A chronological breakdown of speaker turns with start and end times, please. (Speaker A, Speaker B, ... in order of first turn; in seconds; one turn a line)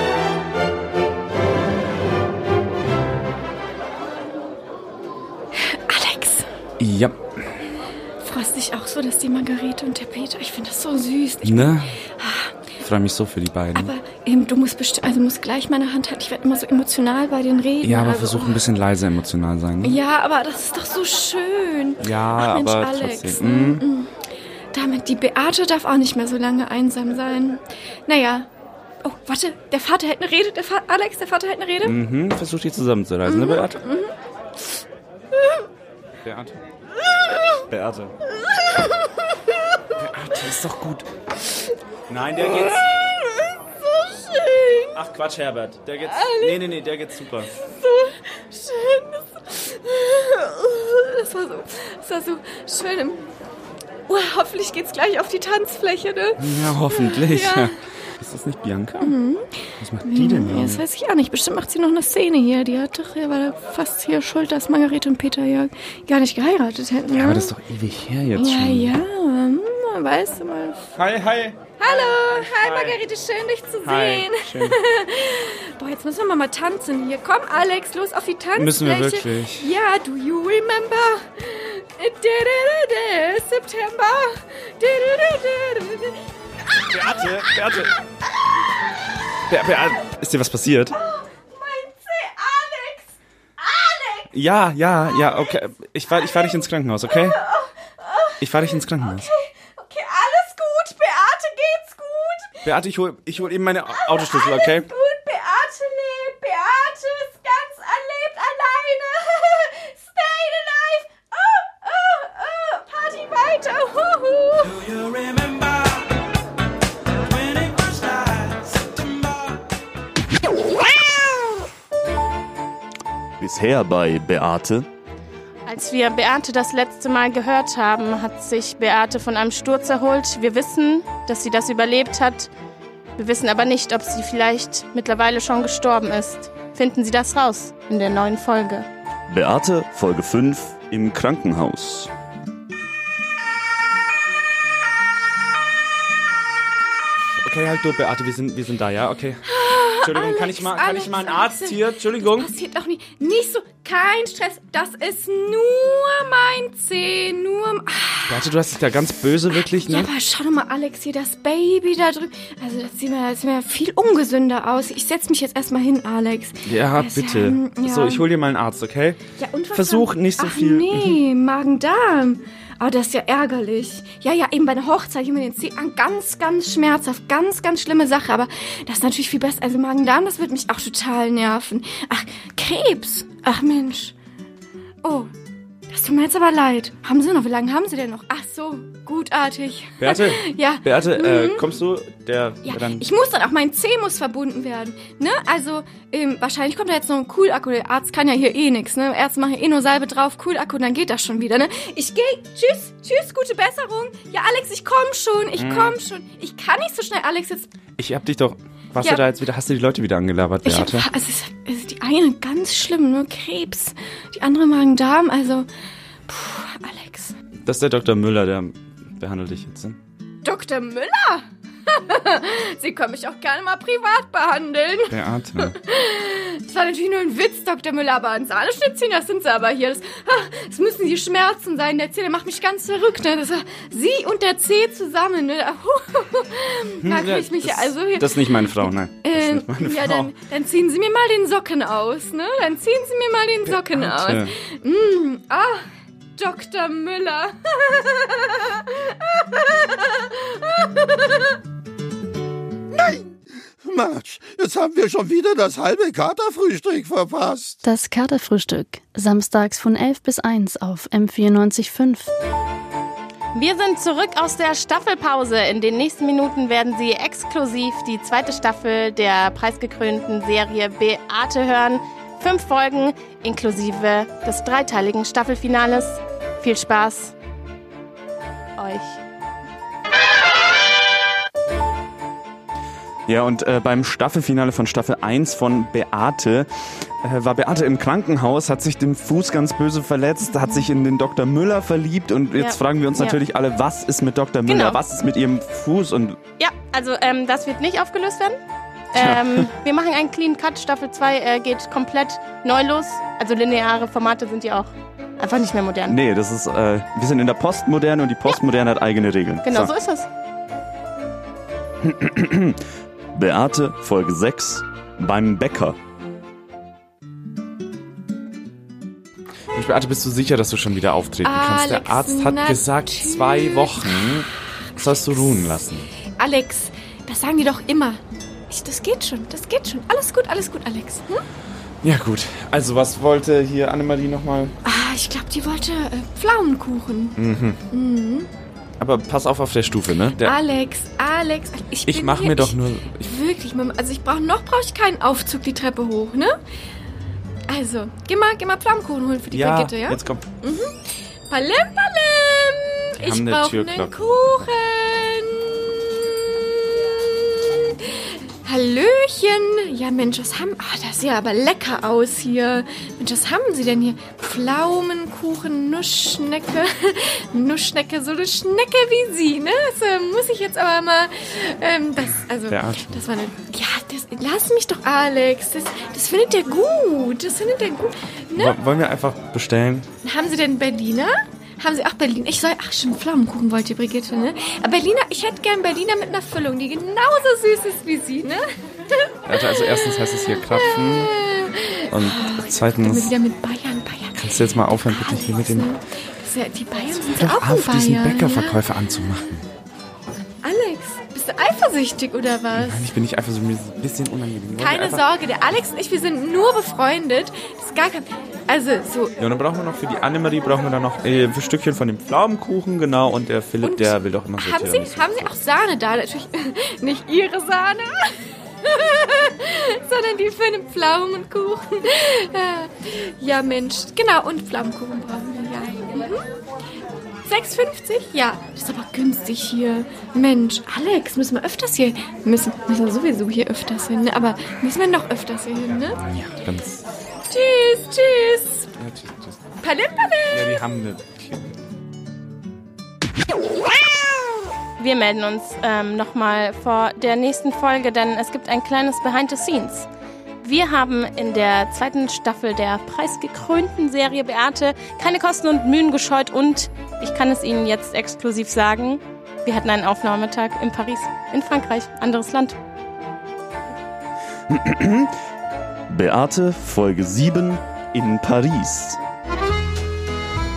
Speaker A: 5.5-6.5
Speaker B: 6.8-7.2
Speaker A: 8.2-12.6
Speaker B: 11.4-11.9
Speaker B: 12.8-13.9
Speaker A: 13.8-18.6
Speaker B: 17.8-20.0
Speaker A: 19.8-24.1
Speaker B: 22.0-23.8
Speaker A: 24.7-28.5
Speaker A: 29.0-32.0
Speaker B: 31.8-33.8
Speaker A: 33.3-34.1
Speaker B: 36.2-36.6
Speaker B: 37.7-38.1
Speaker B: 40.0-41.1
Speaker B: 42.1-42.9
Speaker A: 42.7-45.0
Speaker B: 45.0-47.5
Speaker A: 46.1-46.6
Speaker A: 47.6-53.3
Speaker A: 54.1-57.7
Speaker B: 56.4-59.1
Speaker A: 59.0-59.5
Speaker B: 59.8-60.8
Speaker A: 60.0-67.5
Speaker B: 67.1-68.9
Speaker A: 68.4-70.9
Speaker B: 71.0-73.0
Speaker A: 71.8-88.0
Speaker B: 73.8-74.8
Speaker B: 78.6-79.7
Speaker B: 86.9-87.9
Speaker B: 89.5-91.0
Speaker A: 90.9-93.1
Speaker A: 93.6-94.3
Speaker B: 94.3-97.4
Speaker A: 95.1-95.5
Speaker A: 96.1-98.5
Speaker B: 98.4-99.3
Speaker A: 99.0-102.7
Speaker B: 102.7-104.9
Speaker A: 103.9-114.8
Speaker B: 114.9-115.6
Speaker C: 123.4-124.8
Speaker D: 125.7-132.5
Speaker D: 133.2-138.9
Speaker C: 139.3-142.1
Speaker B: 147.4-149.4
Speaker A: 149.5-158.4
Speaker B: 150.0-152.5
Speaker B: 158.3-160.1
Speaker A: 159.7-168.2
Speaker B: 166.6-169.2
Speaker A: 169.4-184.2
Speaker B: 169.8-171.2
Speaker A: 185.0-185.3
Speaker A: 185.9-191.7
Speaker B: 190.0-193.1
Speaker A: 192.7-207.7
Speaker B: 205.6-206.0
Speaker B: 208.0-211.1
Speaker A: 210.7-215.7
Speaker A: 216.3-217.3
Speaker B: 217.7-220.0
Speaker A: 220.4-251.6
Speaker B: 225.1-225.8
Speaker B: 237.0-240.3
Speaker B: 243.7-244.5
Speaker E: 252.9-257.8
Speaker F: 257.8-262.3
Speaker D: 263.5-277.3
Speaker D: 278.8-279.2
Speaker C: 283.3-286.7
Speaker C: 287.2-296.4
Speaker B: 287.3-291.2
Speaker D: 292.6-293.4
Speaker D: 294.7-295.0
Speaker D: 296.6-298.6
Speaker D: 299.1-306.2
Speaker C: 306.1-309.9
Speaker D: 309.6-310.3
Speaker C: 312.1-312.8
Speaker C: 313.4-316.0
Speaker B: 319.7-326.1
Speaker A: 321.4-324.1
Speaker A: 326.4-331.4
Speaker B: 332.0-334.8
Speaker A: 334.8-337.4
Speaker B: 337.4-337.8
Speaker A: 337.9-338.5
Speaker B: 339.0-340.6
Speaker A: 340.4-346.6
Speaker B: 342.1-343.3
Speaker A: 347.7-351.0
Speaker B: 349.5-350.4
Speaker A: 351.5-378.8
Speaker B: 353.2-354.2
Speaker B: 372.7-373.2
Speaker B: 378.6-380.1
Speaker A: 380.2-389.9
Speaker B: 389.5-391.3
Speaker A: 390.7-398.8
Speaker B: 392.1-393.3
Speaker B: 394.4-395.9
Speaker B: 397.2-399.6
Speaker A: 400.6-403.1
Speaker B: 402.8-405.2
Speaker A: 404.8-409.4
Speaker B: 409.4-415.6
Speaker A: 413.8-426.4
Speaker A: 427.4-436.2
Speaker B: 435.9-437.0
Speaker A: 437.5-438.9
Speaker B: 439.0-439.6
Speaker A: 439.8-440.8
Speaker B: 440.5-441.7
Speaker D: 445.0-450.1
Speaker D: 450.6-462.8
Speaker C: 464.7-465.3
Speaker C: 466.1-469.2